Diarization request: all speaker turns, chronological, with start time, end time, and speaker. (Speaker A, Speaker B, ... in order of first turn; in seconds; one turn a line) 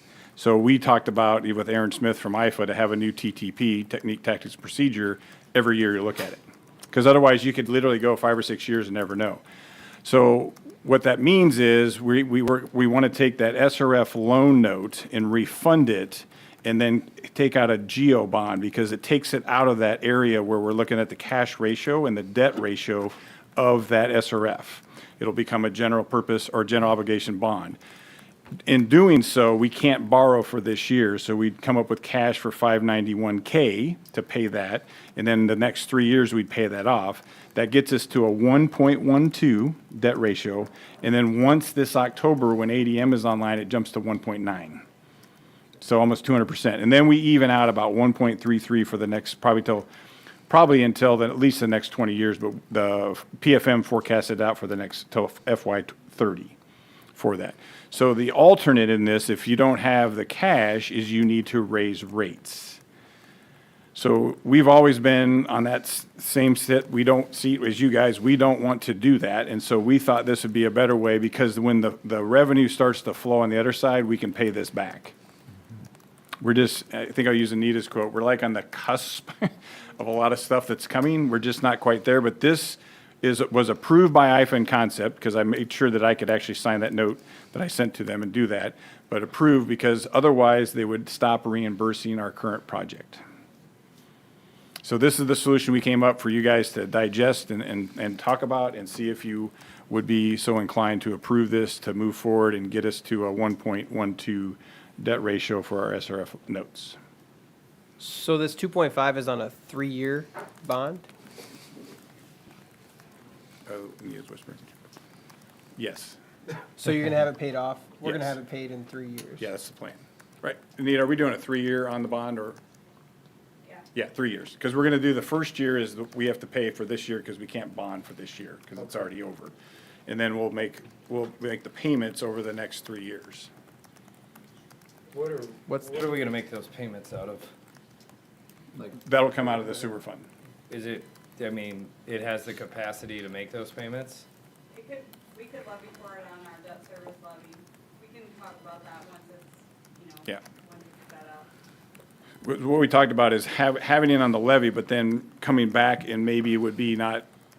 Speaker A: 0.4-6.4
Speaker A: 6.9-9.4
Speaker A: 10.0-27.8
Speaker A: 28.7-44.8
Speaker A: 45.8-49.9
Speaker A: 50.5-56.5
Speaker A: 57.2-62.8
Speaker A: 64.0-75.1
Speaker A: 76.4-93.2
Speaker A: 94.8-107.0
Speaker B: 108.0-111.1
Speaker A: 113.7-114.7
Speaker A: 115.8-116.2
Speaker B: 116.8-119.5
Speaker A: 118.0-118.4
Speaker A: 119.4-122.6
Speaker A: 123.9-129.5
Speaker A: 130.1-133.5
Speaker C: 135.1-137.5
Speaker A: 138.8-140.3
Speaker C: 140.7-144.2
Speaker D: 144.7-151.5
Speaker A: 152.4-157.3